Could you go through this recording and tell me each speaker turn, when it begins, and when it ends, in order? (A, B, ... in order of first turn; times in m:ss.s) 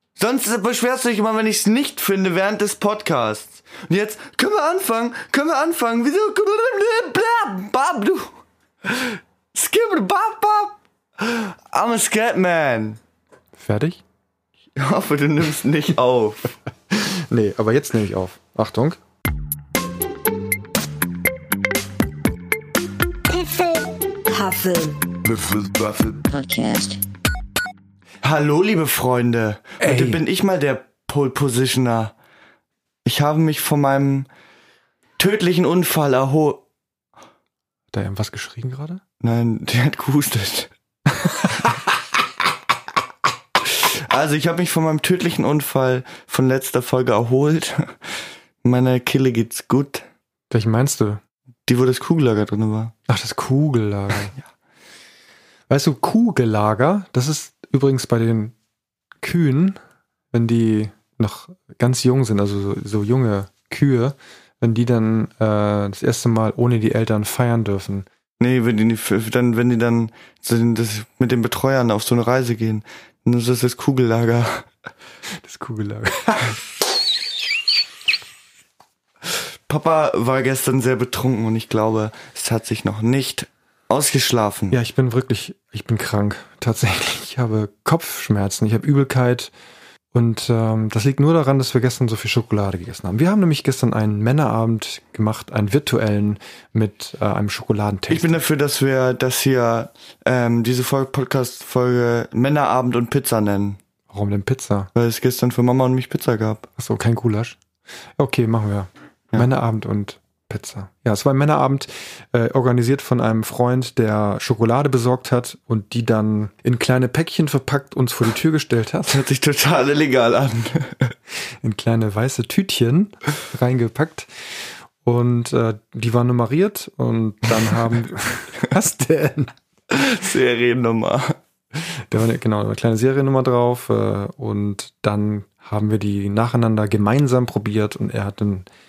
0:00.2-0:13.0 A
0:13.6-0:14.0 B
0:14.7-0:16.5 A
0:16.9-0:19.0 B
0:23.3-0:27.0 C
0:28.2-0:32.1 A
0:29.8-0:30.2 B
0:33.0-0:34.3 A
0:35.2-0:36.6 A
0:37.9-0:39.0 B
0:39.2-0:40.7 A
0:43.6-0:50.0 A
0:50.5-0:51.2 B
0:51.7-0:52.9 A
0:53.1-0:54.3 B
0:55.7-0:58.6 B
0:59.2-0:59.8 B
1:00.3-1:08.0 B
1:08.4-1:14.7 A
1:15.4-1:16.6 B
1:19.2-1:24.8 A
1:24.7-1:29.5 B
1:30.1-1:38.4 B
1:38.1-1:43.8 A
1:44.1-1:44.9 B
1:44.9-1:46.7 A
1:46.8-1:47.6 B
1:48.2-1:59.2 B
1:59.0-2:01.1 A
2:01.6-2:04.3 B
2:05.0-2:09.5 B
2:09.9-2:11.4 A
2:12.1-2:18.7 B